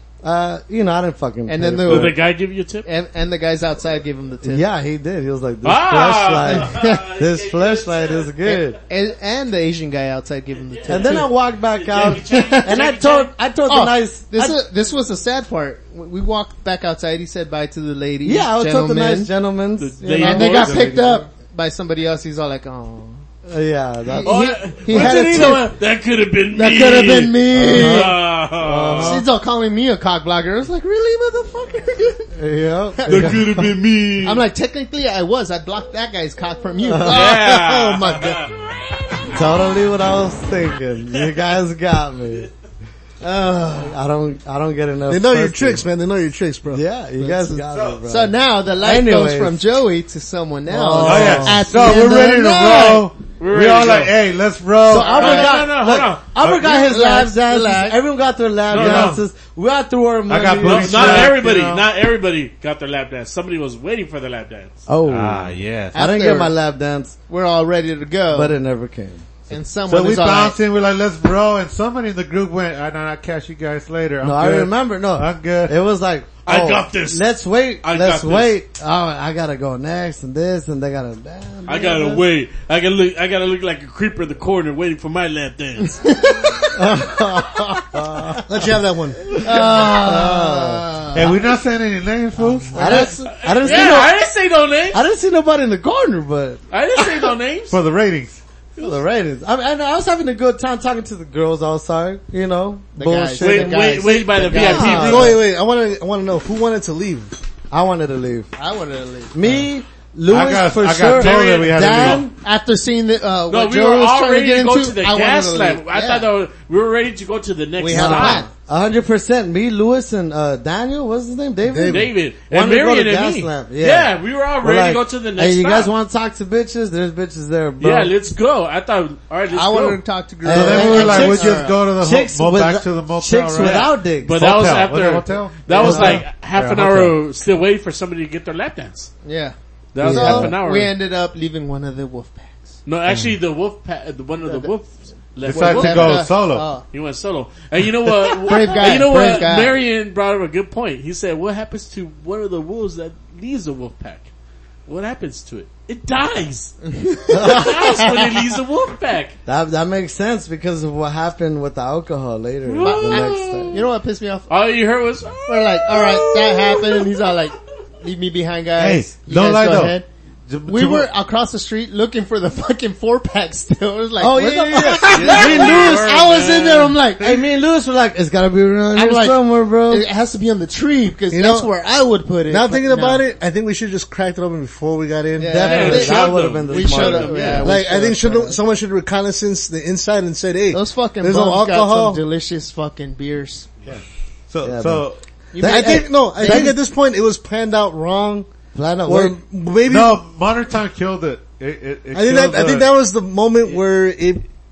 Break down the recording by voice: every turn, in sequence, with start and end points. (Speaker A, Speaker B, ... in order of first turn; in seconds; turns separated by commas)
Speaker A: 0.2-2.2, Speaker B: 1.5-2.3, Speaker C: 1.9-2.9, Speaker B: 2.8-4.7, Speaker A: 4.4-8.8, Speaker C: 5.6-8.6, Speaker B: 6.5-7.0, Speaker B: 8.8-11.3, Speaker C: 10.5-13.3, Speaker A: 10.9-14.6, Speaker B: 12.0-12.8, Speaker B: 13.7-19.3, Speaker A: 18.2-21.1, Speaker C: 19.8-20.9, Speaker B: 20.2-23.2, Speaker A: 23.5-25.7, Speaker B: 24.1-25.7, Speaker C: 24.2-29.2, Speaker B: 26.5-28.2, Speaker A: 27.5-29.2, Speaker D: 28.6-29.2, Speaker B: 29.0-32.2, Speaker A: 32.4-33.6, Speaker B: 33.0-37.7, Speaker C: 33.1-34.4, Speaker A: 36.8-37.2, Speaker C: 37.1-38.5, Speaker E: 37.3-38.5, Speaker A: 39.3-42.5, Speaker B: 43.2-43.9, Speaker A: 43.7-45.8, Speaker E: 45.1-47.5, Speaker A: 46.7-49.6, Speaker D: 47.7-48.0, Speaker B: 48.1-53.1, Speaker A: 50.7-52.0, Speaker D: 51.0-55.2, Speaker C: 53.3-54.1, Speaker A: 54.8-61.4, Speaker B: 54.9-55.8, Speaker C: 55.0-56.3, Speaker B: 56.4-58.0, Speaker C: 58.7-59.2, Speaker D: 58.7-59.2, Speaker D: 60.3-61.9, Speaker C: 60.6-64.8, Speaker A: 64.9-67.1, Speaker D: 65.0-66.0, Speaker B: 65.9-66.5, Speaker B: 67.3-68.5, Speaker A: 68.3-69.2, Speaker B: 69.5-70.6, Speaker D: 69.8-75.8, Speaker A: 74.2-82.2, Speaker C: 76.4-77.2, Speaker C: 77.8-78.6, Speaker C: 81.7-86.0, Speaker B: 86.0-86.7, Speaker A: 86.7-88.7, Speaker E: 88.5-89.2, Speaker A: 89.3-90.8, Speaker B: 89.4-91.6, Speaker D: 91.1-93.0, Speaker A: 92.7-94.2, Speaker B: 92.7-94.1, Speaker C: 93.0-95.0, Speaker A: 94.9-97.3, Speaker C: 96.7-97.8, Speaker D: 97.7-98.4, Speaker A: 98.8-103.9, Speaker B: 103.0-105.3, Speaker C: 103.4-105.4, Speaker A: 104.5-105.4, Speaker E: 104.9-107.4, Speaker A: 107.7-108.5, Speaker B: 108.5-109.4, Speaker A: 109.3-112.3, Speaker D: 110.3-112.3, Speaker C: 111.1-112.1, Speaker B: 112.3-116.3, Speaker C: 113.5-118.5, Speaker B: 117.8-118.5, Speaker A: 117.9-128.1, Speaker E: 121.7-122.1, Speaker C: 121.9-125.9, Speaker C: 127.8-130.0, Speaker B: 129.5-131.9, Speaker A: 130.4-134.4, Speaker D: 130.5-137.2, Speaker C: 133.6-139.1, Speaker A: 135.7-136.2, Speaker B: 139.2-142.8, Speaker C: 139.9-140.9, Speaker A: 140.0-140.3, Speaker C: 142.8-146.3, Speaker B: 144.4-144.7, Speaker D: 145.4-146.8, Speaker B: 145.4-146.8, Speaker C: 146.9-154.3, Speaker B: 148.4-149.8, Speaker C: 154.9-156.7, Speaker B: 156.9-158.3, Speaker A: 157.3-157.8, Speaker C: 157.4-159.3, Speaker A: 159.4-163.8, Speaker C: 162.7-163.8, Speaker B: 162.8-164.5, Speaker C: 164.5-167.1, Speaker B: 165.5-170.0, Speaker D: 168.8-171.1, Speaker B: 170.7-177.5, Speaker A: 174.2-175.8, Speaker C: 175.1-177.0, Speaker D: 175.3-175.6, Speaker A: 177.2-180.0, Speaker B: 178.9-183.2, Speaker E: 181.3-181.7, Speaker E: 182.5-186.0, Speaker B: 185.4-188.6, Speaker A: 185.5-187.9, Speaker C: 185.6-187.7, Speaker E: 187.6-192.2, Speaker B: 190.7-193.7, Speaker D: 193.8-195.2, Speaker A: 194.6-196.8, Speaker B: 195.5-196.8, Speaker E: 195.6-198.5, Speaker A: 198.7-199.4, Speaker E: 199.1-200.2, Speaker D: 199.8-202.9, Speaker E: 202.1-204.4